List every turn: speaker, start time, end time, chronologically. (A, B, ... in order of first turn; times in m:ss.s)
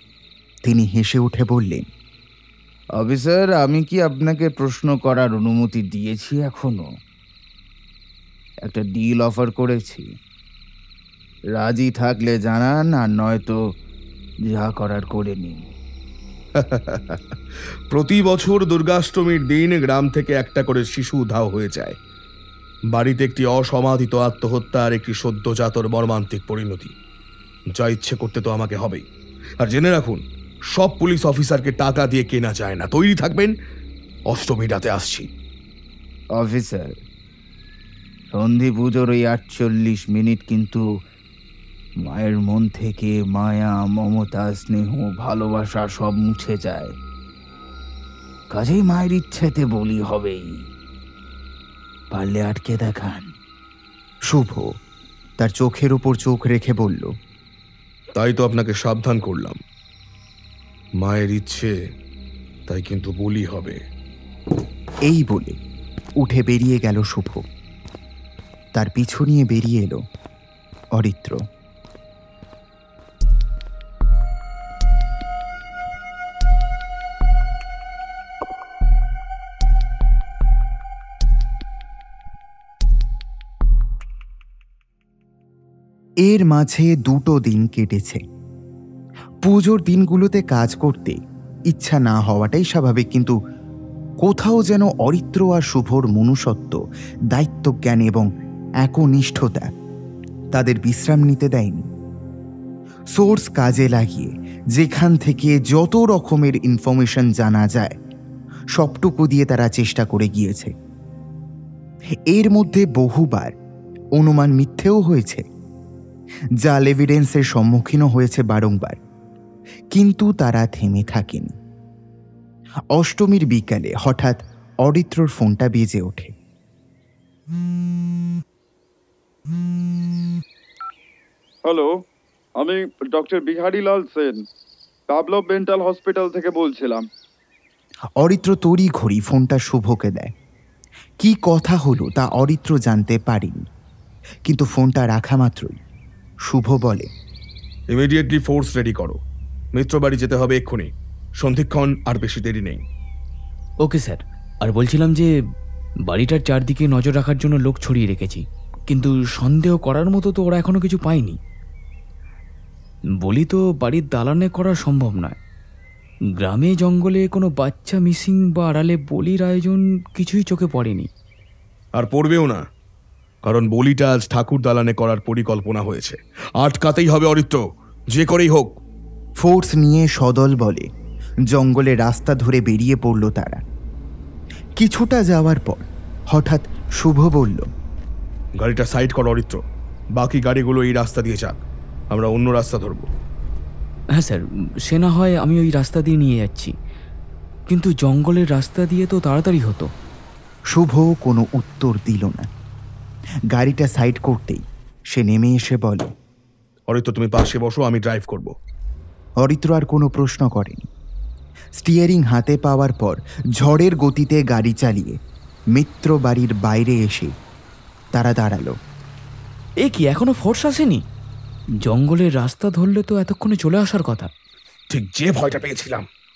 0:00.6-0:01.8 A
0:03.0-0:06.9 B
0:08.6-0:10.1 B
0:11.5-0:13.6 B
0:14.5-0:15.7 B
0:16.6-0:17.2 C
0:17.9-0:22.0 C
0:22.9-0:26.9 C
0:27.7-0:29.0 C
0:29.6-0:33.5 C
0:34.3-0:35.3 C
0:36.4-0:37.0 B
0:38.3-0:40.8 B
0:42.0-0:46.9 B
0:48.5-0:50.6 B
0:52.1-0:53.3 B
0:54.3-0:54.7 A
0:55.4-0:57.1 A
0:58.2-0:59.6 C
1:01.0-1:01.8 C
1:02.7-1:03.8 C
1:05.1-1:05.6 A
1:06.2-1:07.5 A
1:08.7-1:10.0 A
1:11.0-1:11.4 A
1:26.2-1:28.2 A
1:29.4-1:33.4 A
1:34.2-1:36.8 A
1:37.3-1:38.3 A
1:38.8-1:39.7 A
1:40.5-1:41.8 A
1:43.1-1:48.0 A
1:48.8-1:50.7 A
1:52.3-1:53.5 A
1:54.2-1:55.4 A
1:56.6-1:59.0 A
1:59.9-2:01.6 A
2:02.9-2:06.3 A
2:11.6-2:12.0 D
2:12.6-2:14.4 D
2:15.1-2:17.0 D
2:18.2-2:20.3 A
2:21.2-2:23.6 A
2:24.4-2:25.8 A
2:26.5-2:27.1 A
2:27.9-2:29.2 C
2:29.7-2:32.8 C
2:33.8-2:35.3 E
2:36.1-2:41.4 E
2:43.2-2:45.4 E
2:46.4-2:51.1 E
2:52.0-2:52.6 C
2:53.4-2:57.6 C
2:58.1-2:58.7 C
2:59.4-3:00.9 A
3:01.5-3:03.6 A
3:04.8-3:07.7 A
3:08.6-3:09.6 C
3:10.2-3:11.6 C
3:12.1-3:13.1 C
3:14.2-3:16.7 E
3:17.7-3:19.9 E
3:20.7-3:22.5 A
3:23.5-3:26.1 A
3:26.9-3:28.5 C
3:29.4-3:30.9 A
3:31.8-3:35.2 A
3:35.7-3:37.3 A
3:38.1-3:38.8 A
3:39.8-3:41.0 E
3:41.8-3:44.3 E
3:44.9-3:46.1 C